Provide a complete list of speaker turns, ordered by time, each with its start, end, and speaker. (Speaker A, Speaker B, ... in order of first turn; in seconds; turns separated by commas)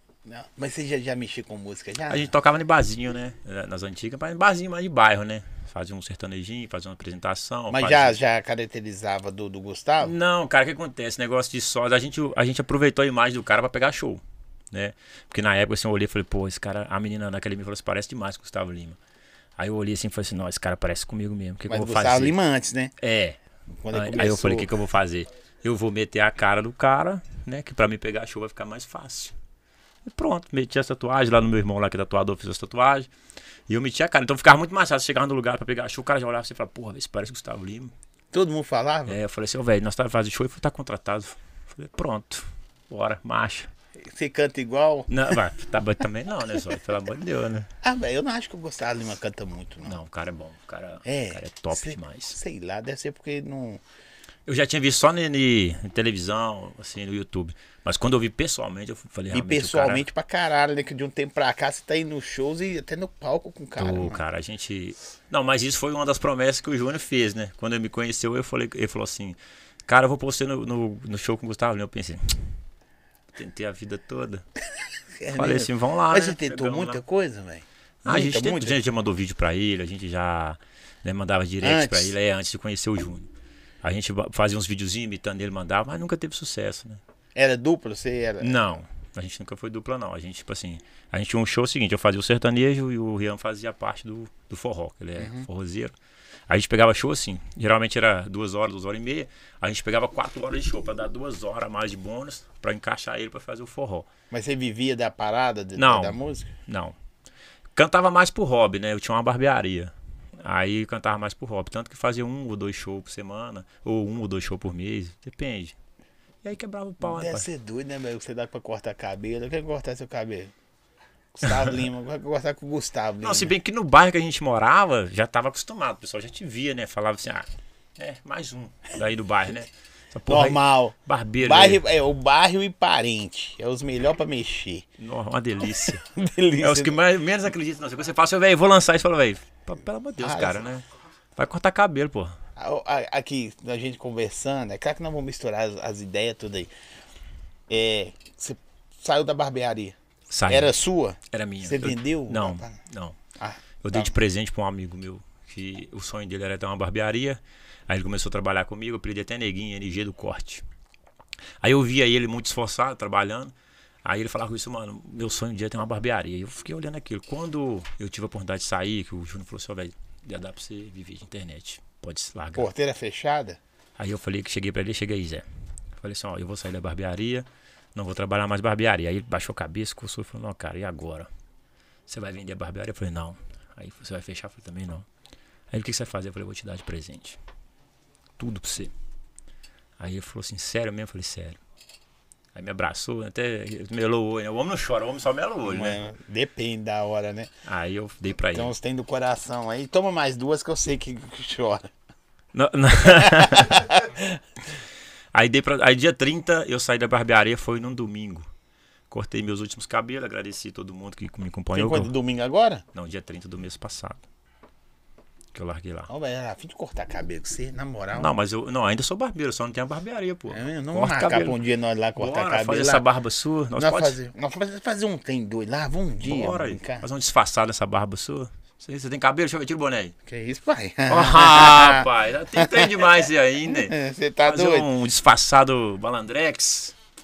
Speaker A: 0.2-2.3, Speaker B: 2.1-8.2, Speaker A: 7.7-10.2, Speaker B: 10.0-19.0, Speaker B: 19.6-22.4, Speaker A: 21.7-22.9, Speaker B: 23.0-23.4, Speaker A: 23.8-24.7, Speaker B: 23.9-29.3, Speaker B: 30.1-33.1, Speaker B: 33.7-37.9, Speaker A: 38.3-39.2, Speaker B: 39.1-43.7, Speaker A: 44.0-45.1, Speaker B: 45.1-47.7, Speaker A: 47.8-50.0, Speaker B: 49.8-52.4, Speaker A: 51.0-53.8, Speaker B: 54.5-60.1, Speaker A: 59.3-64.2, Speaker B: 63.8-72.6, Speaker B: 73.3-74.5, Speaker A: 75.2-78.8, Speaker B: 75.3-77.0, Speaker B: 78.0-83.3, Speaker A: 81.6-82.1, Speaker B: 83.8-87.0, Speaker A: 87.3-88.7, Speaker B: 88.4-95.9, Speaker A: 95.2-95.5, Speaker B: 96.5-104.1, Speaker A: 104.3-106.5, Speaker B: 105.8-107.0, Speaker B: 107.8-115.8, Speaker B: 116.4-117.5, Speaker A: 117.0-120.5, Speaker A: 121.3-123.5, Speaker B: 123.2-131.8, Speaker A: 130.3-134.9, Speaker B: 135.0-136.0, Speaker A: 135.9-137.0, Speaker B: 136.6-140.8, Speaker A: 140.2-140.7, Speaker B: 141.4-142.4, Speaker A: 142.6-146.7, Speaker A: 147.7-150.0, Speaker B: 150.3-150.7, Speaker A: 150.5-152.8, Speaker B: 151.3-153.2, Speaker A: 153.4-154.2, Speaker B: 153.8-160.6, Speaker B: 161.6-163.5, Speaker B: 164.0-172.7, Speaker A: 172.6-173.6, Speaker B: 174.0-175.4, Speaker B: 176.0-181.3, Speaker B: 182.1-185.1, Speaker B: 185.7-187.4, Speaker B: 188.4-188.9, Speaker B: 190.0-191.6, Speaker B: 192.5-196.0, Speaker A: 195.7-197.5, Speaker B: 197.7-198.8, Speaker A: 198.5-201.9, Speaker B: 202.5-203.9, Speaker A: 203.0-204.4, Speaker B: 205.3-208.5, Speaker B: 209.1-212.1, Speaker A: 211.7-212.8, Speaker B: 212.9-214.3, Speaker B: 215.5-216.1, Speaker A: 216.1-218.3, Speaker B: 218.1-221.6, Speaker A: 220.5-223.1, Speaker B: 222.2-224.2, Speaker A: 223.8-227.1, Speaker B: 226.2-230.1, Speaker A: 230.3-234.9, Speaker B: 231.1-236.9